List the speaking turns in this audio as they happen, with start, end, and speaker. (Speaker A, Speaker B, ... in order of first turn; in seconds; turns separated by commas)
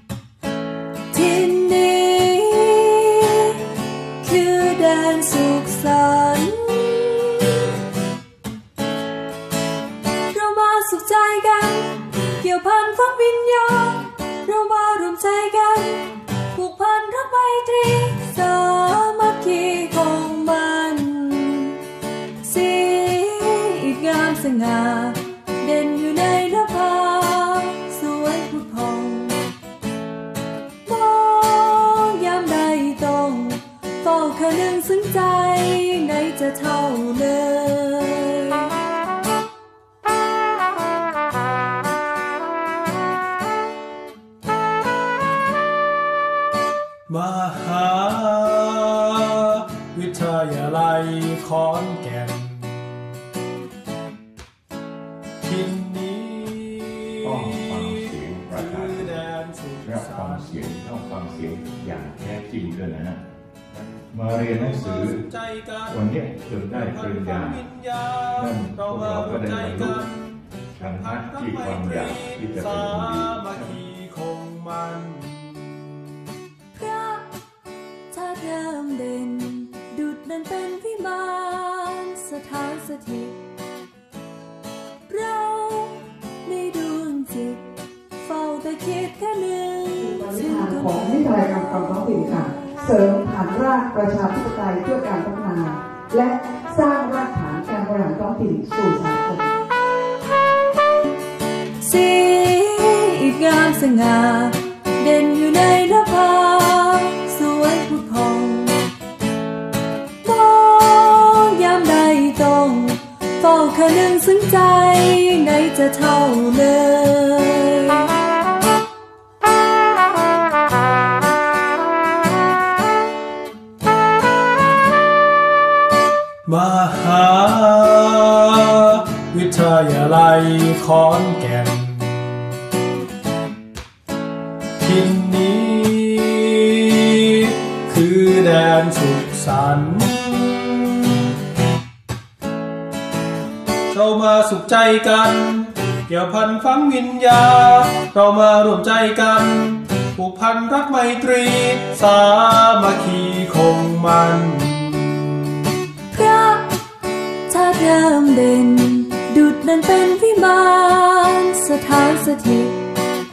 Speaker A: 1.1-7.7, Speaker A: 10.3-21.8, Speaker A: 22.4-29.5, Speaker A: 30.8-38.8, Speaker B: 47.1-52.9, Speaker B: 55.4-60.6, Speaker C: 57.2-59.1, Speaker C: 59.8-63.2, Speaker C: 63.9-65.2, Speaker B: 64.5-66.1, Speaker C: 65.9-67.6, Speaker B: 66.7-70.3, Speaker C: 68.3-70.1, Speaker C: 70.7-73.8, Speaker B: 70.9-75.9, Speaker A: 76.7-77.3, Speaker A: 78.1-83.4, Speaker A: 85.1-92.5, Speaker D: 90.0-99.5, Speaker A: 101.8-108.8, Speaker A: 110.2-118.2, Speaker B: 126.4-132.3, Speaker B: 134.8-141.3, Speaker B: 143.9-155.4, Speaker A: 156.1-156.8, Speaker A: 157.5-162.8